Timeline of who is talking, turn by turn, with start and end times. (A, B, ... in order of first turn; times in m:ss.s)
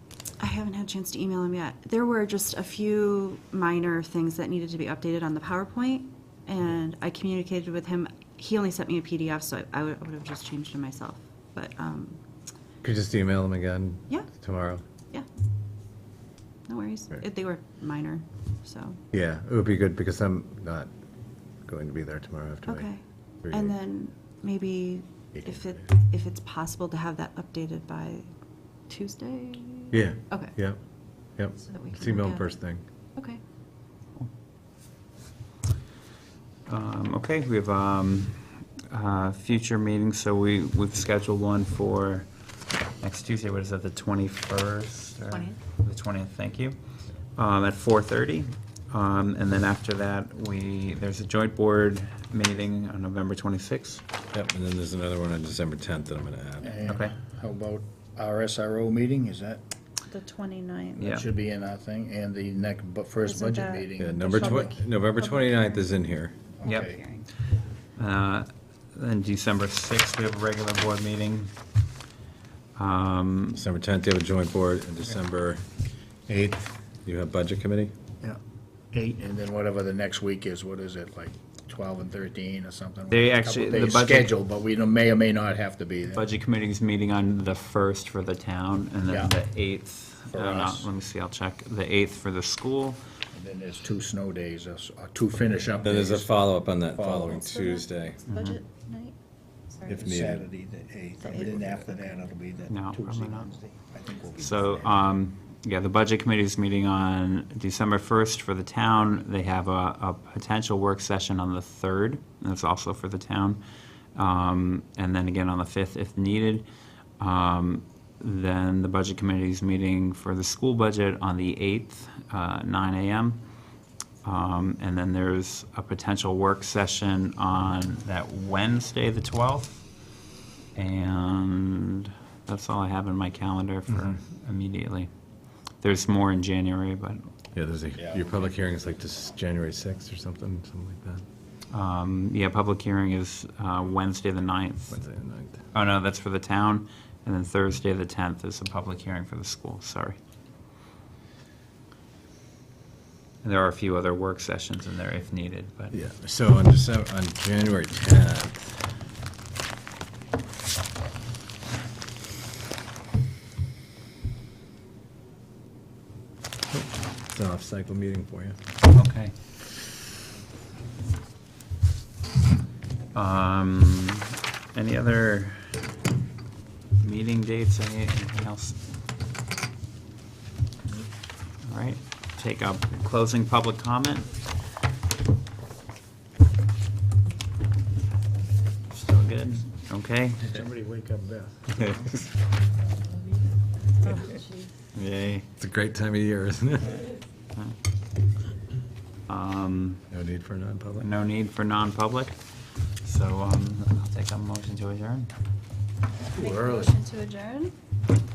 0:00.4-0:12.2 A
0:12.8-0:14.8 B
0:16.7-0:19.0 A
0:19.1-0:20.9 B
0:21.6-0:22.9 B
0:22.7-0:28.3 A
0:23.4-0:23.7 B
0:25.4-0:25.7 B
0:28.9-0:30.5 A
0:29.9-0:30.8 B
0:31.4-0:32.8 B
0:31.6-0:32.6 A
0:33.1-0:33.4 A
0:36.6-0:42.3 C
0:43.0-0:46.8 C
0:47.4-0:54.0 C
0:54.3-0:56.8 B
0:56.6-0:59.6 D
0:56.8-0:57.1 C
1:00.1-1:01.1 A
1:01.0-1:04.7 D
1:01.0-1:01.2 C
1:03.2-1:05.9 A
1:04.0-1:06.4 B
1:06.6-1:07.0 D
1:06.6-1:06.9 C
1:06.7-1:07.3 A
1:08.0-1:11.5 C
1:12.8-1:13.6 C
1:13.5-1:15.6 B
1:16.3-1:17.9 B
1:18.9-1:26.2 D
1:23.1-1:24.3 C
1:26.1-1:33.0 C
1:29.1-1:29.3 D
1:30.3-1:30.9 D
1:33.3-1:36.3 D
1:35.8-1:38.2 B
1:36.9-1:37.4 D
1:37.4-1:39.2 A
1:38.3-1:38.6 C
1:39.7-1:40.0 A
1:39.9-1:40.4 B
1:39.9-1:45.1 D
1:41.2-1:42.2 A
1:42.7-1:43.5 C
1:44.4-1:53.6 C
1:54.1-1:56.7 C
1:57.2-2:03.4 C
2:04.2-2:09.8 C
2:10.7-2:15.1 C
2:15.8-2:17.3 C
2:17.5-2:21.2 B
2:17.9-2:18.5 D
2:21.7-2:25.0 C
2:24.9-2:25.6 B
2:25.7-2:30.2 C
2:33.4-2:35.9 C
2:35.9-2:38.8 B
2:46.7-2:48.6 B
2:48.9-2:49.3 C
2:53.1-2:55.7 C
2:57.0-2:58.8 C
3:01.6-3:04.3 C
3:08.9-3:10.6 C
3:10.4-3:11.6 D
3:11.7-3:12.2 C
3:14.0-3:14.7 A
3:14.9-3:15.5 C
3:15.6-3:17.1 B
3:19.3-3:20.0 C
3:20.1-3:21.1 B
3:21.0-3:22.4 C
3:23.0-3:25.3 C
3:26.3-3:27.7 A
3:26.4-3:26.9 B